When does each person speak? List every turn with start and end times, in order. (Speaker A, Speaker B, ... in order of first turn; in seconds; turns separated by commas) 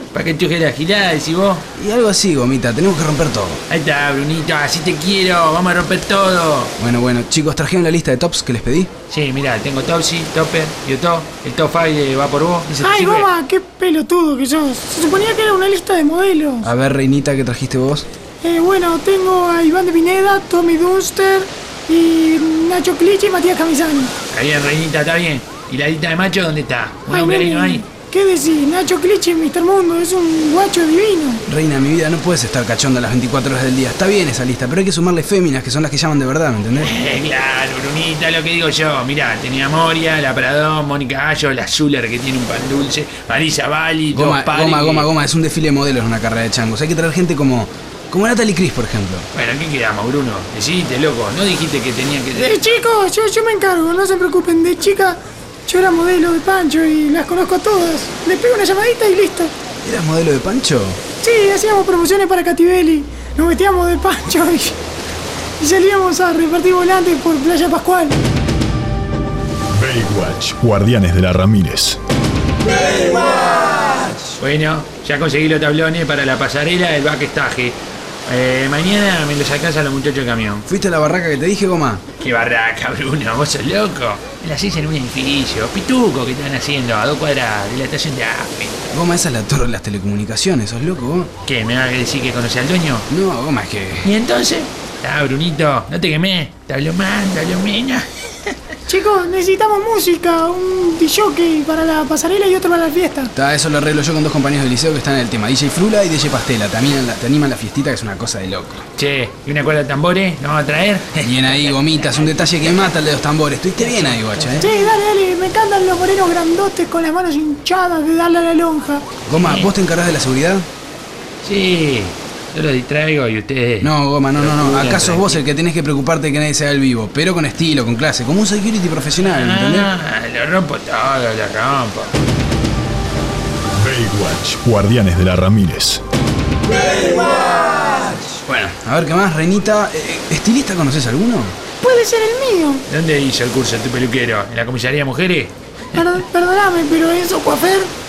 Speaker A: 0.1-1.6, Speaker B: 1.8-3.6, Speaker A: 3.7-6.7, Speaker B: 6.8-8.9, Speaker A: 9.1-13.3, Speaker C: 12.8-16.7, Speaker B: 16.6-18.1, Speaker C: 18.4-24.1, Speaker A: 24.3-27.9, Speaker C: 27.1-31.4, Speaker B: 31.5-36.9, Speaker A: 36.8-45.1, Speaker B: 44.1-49.3, Speaker A: 49.3-52.7, Speaker C: 52.3-59.5, Speaker B: 59.8-61.0, Speaker C: 61.2-64.8, Speaker C: 65.6-68.2, Speaker D: 69.7-72.0, Speaker A: 74.4-80.7, Speaker B: 80.7-82.0, Speaker A: 82.2-88.9, Speaker B: 88.9-91.3, Speaker A: 91.5-93.1, Speaker B: 93.1-94.1, Speaker A: 94.0-98.5, Speaker C: 98.9-103.3, Speaker B: 103.3-108.8, Speaker A: 109.0-112.9, Speaker B: 111.2-114.7, Speaker A: 113.8-114.8, Speaker C: 114.6-119.1, Speaker B: 119.3-120.7, Speaker A: 119.3-119.7, Speaker A: 121.4-125.5, Speaker B: 123.8-129.9, Speaker A: 129.2-132.2, Speaker D: 133.8-136.0, Speaker B: 138.5-141.6, Speaker C: 141.8-142.8, Speaker A: 142.9-145.5, Speaker C: 145.9-147.9